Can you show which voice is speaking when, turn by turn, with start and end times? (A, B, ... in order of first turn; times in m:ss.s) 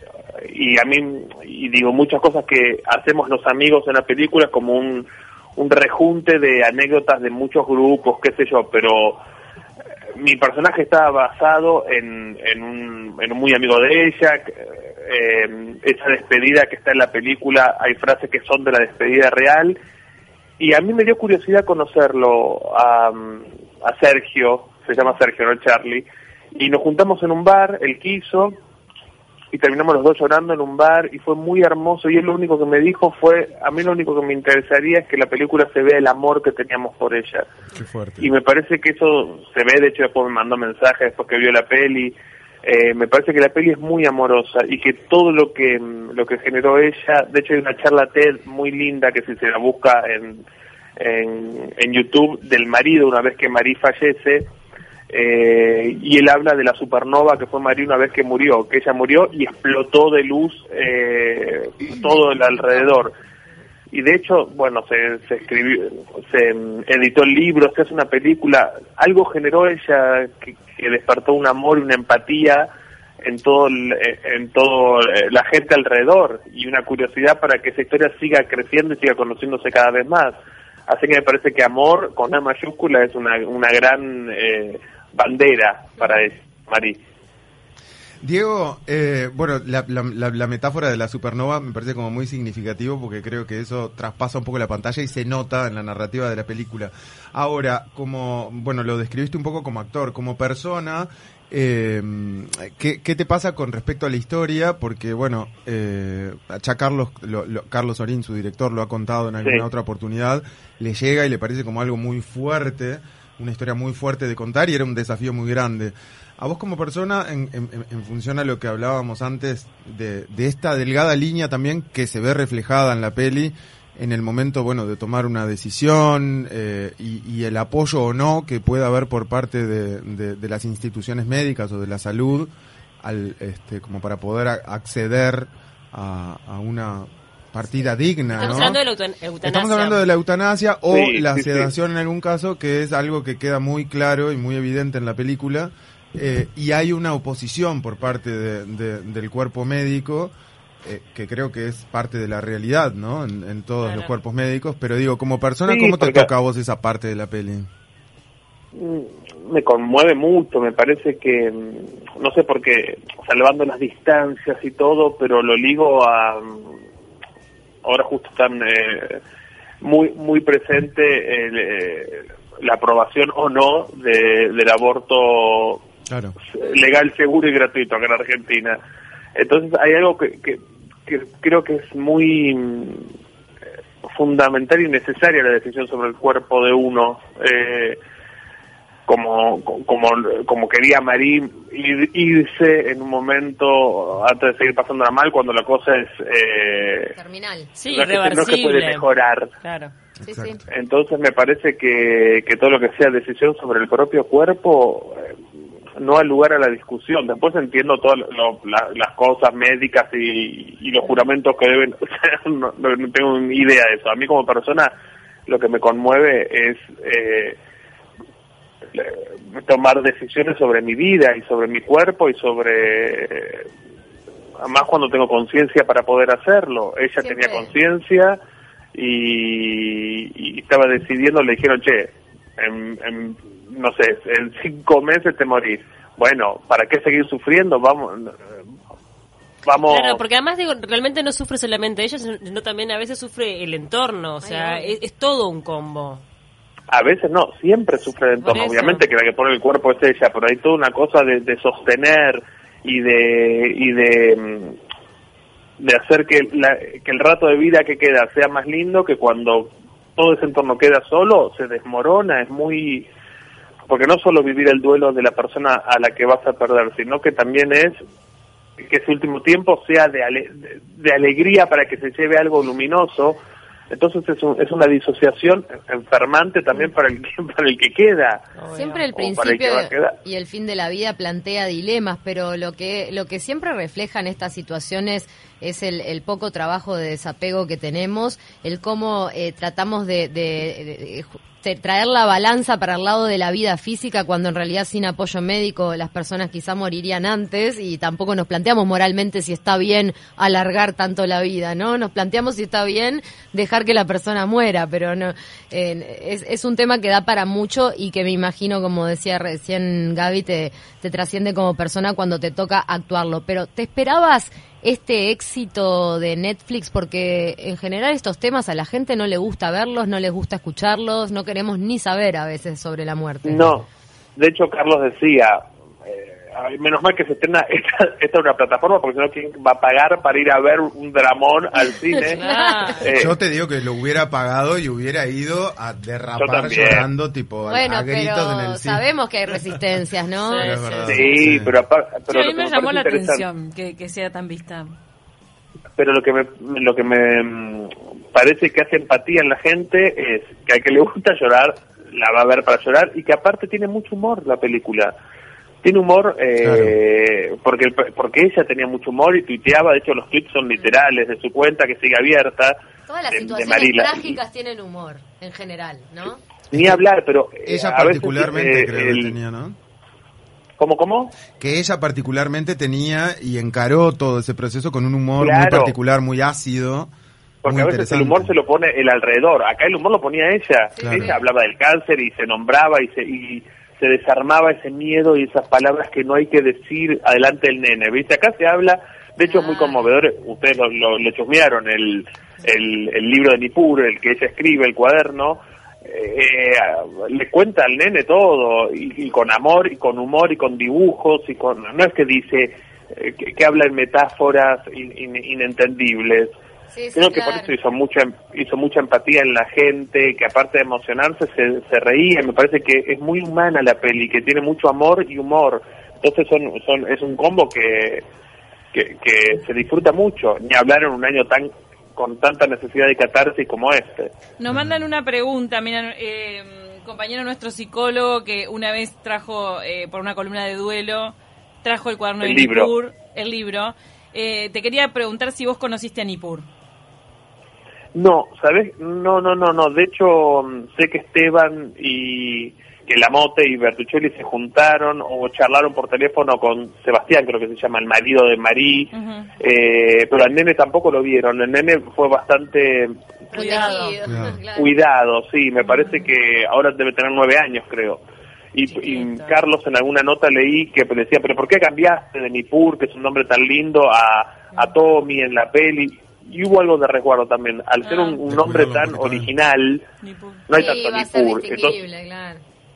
0:00.5-0:09.2 A
0:10.2-0:19.8 A
0:20.6-0:28.5 A
0:29.5-0:37.5 A
0:37.7-0:38.3 B
0:38.2-0:50.4 A
0:51.0-0:54.5 A
0:55.1-1:03.1 A
1:03.9-1:12.7 A
1:13.2-1:20.3 A
1:20.9-1:27.0 A
1:28.2-2:18.8 B
2:18.4-2:18.7 C
2:18.4-2:20.0 D
2:19.4-2:30.3 B
2:20.9-2:21.7 A
2:30.8-2:37.7 B
2:33.8-2:34.1 D
2:35.6-2:36.3 A
2:38.8-2:46.7 A
2:47.8-2:49.2 A
2:49.8-2:55.8 A
2:56.1-2:56.4 B
2:56.5-2:58.8 A
2:59.4-3:03.1 A
3:04.1-3:08.0 A
3:09.1-3:17.1 A
3:17.2-3:17.7 C
3:17.8-3:19.0 D
3:17.9-3:19.5 A
3:19.6-3:19.9 D
3:20.2-3:20.6 C
3:20.2-3:20.6 B
3:20.7-3:25.3 A
3:26.0-3:34.9 A
3:35.5-3:37.6 A
3:38.9-3:43.6 A
3:44.6-3:48.4 A
3:47.2-3:47.7 C
3:48.9-3:58.5 A
3:59.6-4:00.2 A
3:59.8-4:06.2 D
4:04.4-4:05.0 C
4:06.9-4:14.8 A
4:08.4-4:09.0 D
4:15.8-4:23.1 A
4:23.9-4:28.0 A
4:28.8-4:33.4 A
4:33.9-4:38.4 A
4:38.6-4:39.0 D
4:38.7-5:23.6 C
4:39.1-4:40.1 A
5:23.4-5:32.4 A
5:31.9-5:32.9 C
5:32.3-5:33.1 D
5:33.0-5:33.3 A
5:33.1-5:39.1 B
5:36.4-5:37.0 A
5:37.7-5:41.1 C
5:40.4-5:41.1 D
5:40.5-5:41.8 B
5:41.1-5:43.4 A
5:42.3-5:44.9 E
5:46.0-5:55.1 A
5:55.8-6:02.8 A
5:56.6-5:57.0 B
6:03.1-6:06.4 C
6:03.3-6:04.4 A
6:06.7-6:07.0 B
6:06.7-6:09.4 A
6:07.6-6:09.8 B
6:10.8-6:11.3 A
6:11.6-6:17.1 B
6:15.4-6:15.9 A
6:17.6-6:46.5 A
6:17.6-6:18.5 B
6:20.9-6:21.4 C
6:21.0-6:21.3 B
6:29.5-6:30.1 C
6:46.9-6:47.7 C
6:47.1-6:58.2 A
6:58.9-7:04.3 A
7:04.6-7:16.7 E
7:04.7-7:05.0 B
7:12.4-7:12.9 A
7:18.2-7:33.2 A
7:29.1-7:29.5 E
7:33.5-7:35.0 C
7:33.5-7:34.2 E
7:34.2-7:34.6 B
7:34.7-7:38.2 A
7:35.8-7:36.3 E
7:38.7-7:50.0 A
7:38.9-7:39.5 E
7:48.0-7:48.4 E
7:48.4-7:49.5 B
7:50.2-7:50.6 E
7:50.7-7:52.0 A
7:50.7-7:52.6 C